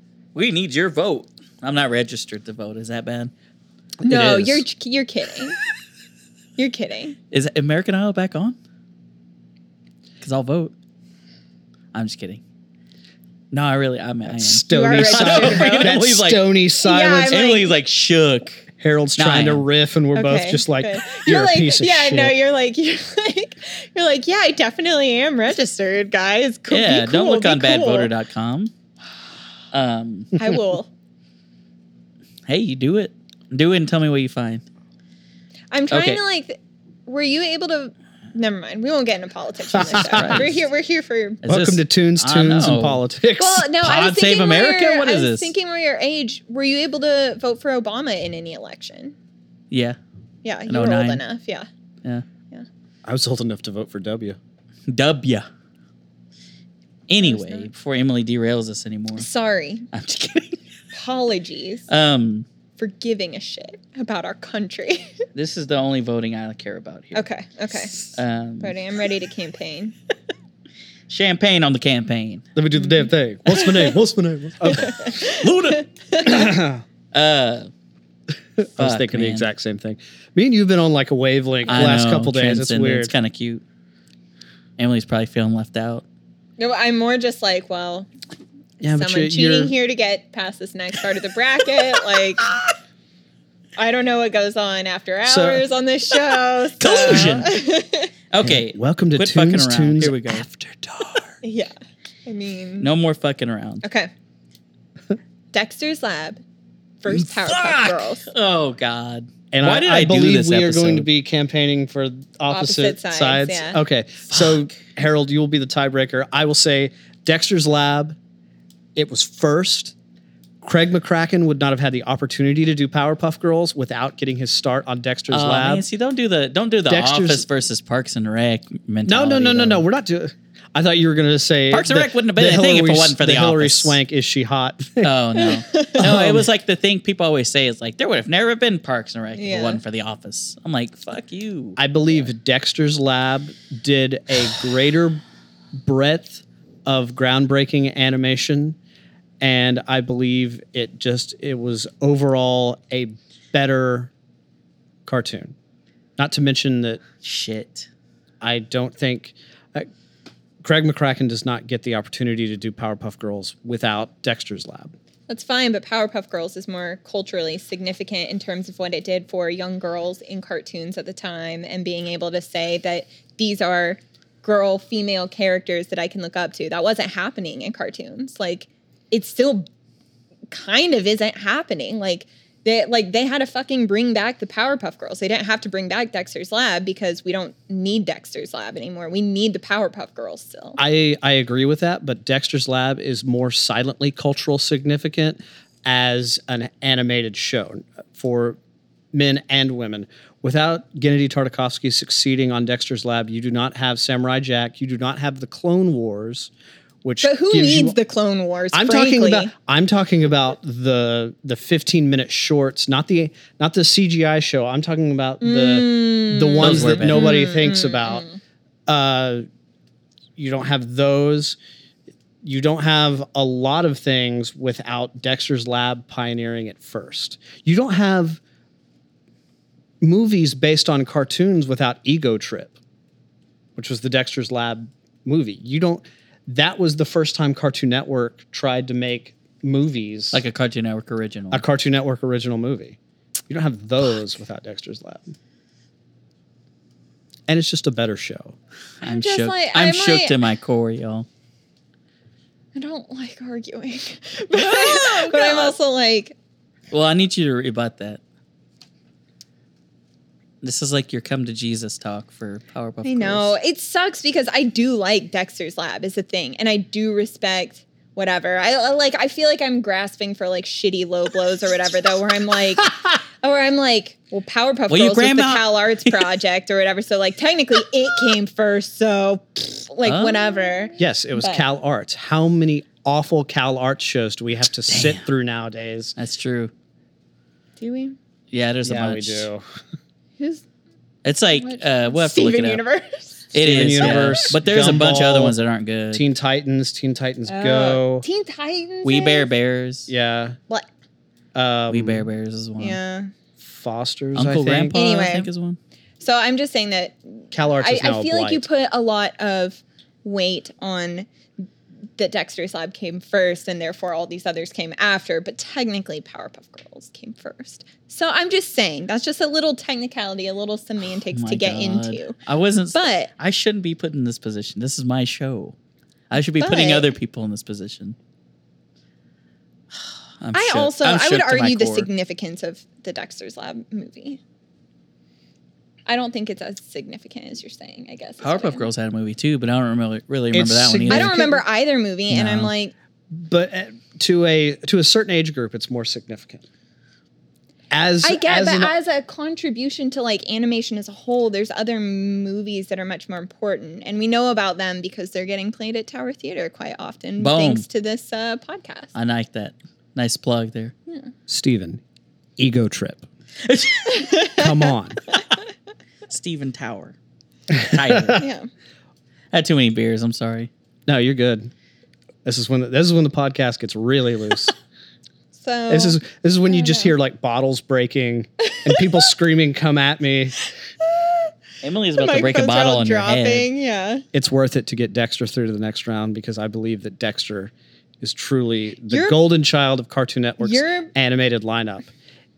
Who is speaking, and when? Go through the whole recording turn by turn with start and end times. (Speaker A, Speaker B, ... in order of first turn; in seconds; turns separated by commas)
Speaker A: 0.3-3.3, Speaker B: 4.0-4.5, Speaker C: 4.0-5.6, Speaker A: 4.3-4.6, Speaker C: 6.6-7.2, Speaker A: 7.3-8.6, Speaker A: 10.2-10.7, Speaker A: 11.9-12.4, Speaker A: 13.5-16.5, Speaker B: 14.3-17.4, Speaker C: 14.7-16.0, Speaker C: 16.8-17.7, Speaker A: 17.3-19.6, Speaker B: 18.8-22.3, Speaker C: 20.1-28.1, Speaker A: 26.7-28.7, Speaker A: 29.7-30.4, Speaker C: 30.4-30.9, Speaker A: 32.5-34.6, Speaker C: 35.7-41.4, Speaker A: 35.9-36.2, Speaker B: 39.7-40.5, Speaker A: 40.0-40.5, Speaker A: 41.4-43.0, Speaker B: 41.5-43.7, Speaker C: 43.4-49.1, Speaker A: 43.7-45.5, Speaker A: 49.7-50.0, Speaker C: 50.4-51.7, Speaker A: 50.7-51.2, Speaker B: 53.0-54.4, Speaker A: 54.9-55.5, Speaker A: 57.1-59.3, Speaker C: 57.2-57.7, Speaker C: 59.1-59.9, Speaker A: 59.9-60.6, Speaker C: 60.9-61.9, Speaker A: 61.9-62.5, Speaker C: 62.8-65.2, Speaker A: 65.3-67.3, Speaker C: 67.1-68.1, Speaker A: 68.0-68.8, Speaker C: 68.6-69.9, Speaker A: 71.1-72.4, Speaker B: 72.5-75.2, Speaker C: 72.8-73.9, Speaker C: 74.7-76.4, Speaker A: 75.3-75.8, Speaker B: 76.2-76.8, Speaker A: 77.1-77.7, Speaker B: 78.6-83.1, Speaker A: 78.8-79.5, Speaker A: 81.7-83.6, Speaker A: 84.8-86.0, Speaker C: 86.6-88.1, Speaker C: 88.8-92.5, Speaker B: 88.8-89.7, Speaker C: 93.8-98.1, Speaker B: 95.2-95.6, Speaker A: 96.8-97.5, Speaker B: 97.0-97.5, Speaker A: 98.3-100.5, Speaker B: 98.4-101.3, Speaker C: 101.4-101.7, Speaker C: 102.2-102.9, Speaker A: 102.8-103.8, Speaker C: 103.8-104.1, Speaker C: 105.5-106.4, Speaker C: 107.0-108.3, Speaker A: 107.1-111.1, Speaker B: 109.5-118.2, Speaker C: 112.5-113.8, Speaker A: 114.3-114.7, Speaker B: 119.0-119.9, Speaker B: 120.6-125.8, Speaker A: 125.3-129.8, Speaker B: 126.9-127.4, Speaker B: 129.1-135.1, Speaker A: 131.7-134.0, Speaker A: 135.0-142.2, Speaker C: 135.3-136.1, Speaker B: 136.0-136.5, Speaker C: 139.3-139.8, Speaker B: 141.8-145.2, Speaker B: 145.8-148.8, Speaker B: 149.4-154.1, Speaker B: 155.1-155.5, Speaker B: 156.2-157.0, Speaker A: 157.2-157.9, Speaker B: 158.4-159.9, Speaker B: 160.6-164.9, Speaker C: 165.3-179.7, Speaker C: 180.5-190.8, Speaker B: 190.8-198.6, Speaker B: 199.1-206.5, Speaker B: 207.0-208.0, Speaker C: 207.2-209.5, Speaker B: 208.7-218.2, Speaker C: 215.4-218.4, Speaker A: 216.6-217.4, Speaker B: 218.9-219.4, Speaker B: 220.4-221.6, Speaker B: 222.4-228.4, Speaker B: 230.0-232.8, Speaker B: 233.8-240.4, Speaker A: 240.3-241.6, Speaker B: 241.5-243.0, Speaker B: 243.5-245.3, Speaker B: 247.5-248.6, Speaker A: 249.0-251.3, Speaker C: 249.0-250.4, Speaker C: 252.7-256.4, Speaker A: 254.6-255.7, Speaker A: 256.9-258.2, Speaker A: 260.6-263.5, Speaker C: 263.0-281.6, Speaker A: 274.9-276.3, Speaker A: 280.0-280.7, Speaker B: 281.0-286.1, Speaker A: 284.9-285.2, Speaker A: 286.2-286.7, Speaker C: 287.8-288.1, Speaker A: 288.5-289.5, Speaker B: 288.8-289.6, Speaker C: 290.4-290.6, Speaker A: 291.2-292.8, Speaker C: 291.5-294.5, Speaker A: 293.5-296.2, Speaker B: 293.6-295.6, Speaker B: 296.1-298.2, Speaker C: 297.5-299.5, Speaker A: 299.0-300.1, Speaker B: 300.1-300.6, Speaker B: 301.5-302.3, Speaker A: 301.9-303.0, Speaker C: 302.8-303.3, Speaker B: 303.6-305.0, Speaker A: 304.3-305.8, Speaker C: 304.9-305.5, Speaker C: 306.2-311.3, Speaker B: 307.5-308.6, Speaker C: 312.2-322.4, Speaker A: 321.0-325.7, Speaker C: 322.9-323.3, Speaker A: 326.3-328.1, Speaker C: 326.6-327.1, Speaker A: 330.4-332.1, Speaker C: 330.5-334.4, Speaker C: 336.1-338.9, Speaker A: 338.4-341.4, Speaker B: 340.5-341.6, Speaker C: 341.1-342.9, Speaker A: 342.3-342.7, Speaker B: 343.3-346.6, Speaker B: 347.9-348.9, Speaker C: 348.2-359.1, Speaker A: 357.4-357.8, Speaker A: 359.1-360.9, Speaker B: 361.5-362.0, Speaker B: 362.6-363.2, Speaker A: 363.6-364.4, Speaker C: 364.1-364.7, Speaker B: 364.6-365.2, Speaker A: 366.3-367.1, Speaker B: 367.7-368.4, Speaker A: 367.7-368.4, Speaker C: 368.3-368.7, Speaker A: 369.5-370.7, Speaker B: 371.1-371.7, Speaker B: 372.4-374.7, Speaker C: 375.5-377.1, Speaker B: 375.9-380.5, Speaker C: 378.6-379.2, Speaker C: 381.0-381.5, Speaker A: 381.8-383.7, Speaker C: 382.1-384.2, Speaker B: 384.3-392.1, Speaker C: 389.1-389.4, Speaker C: 390.6-391.1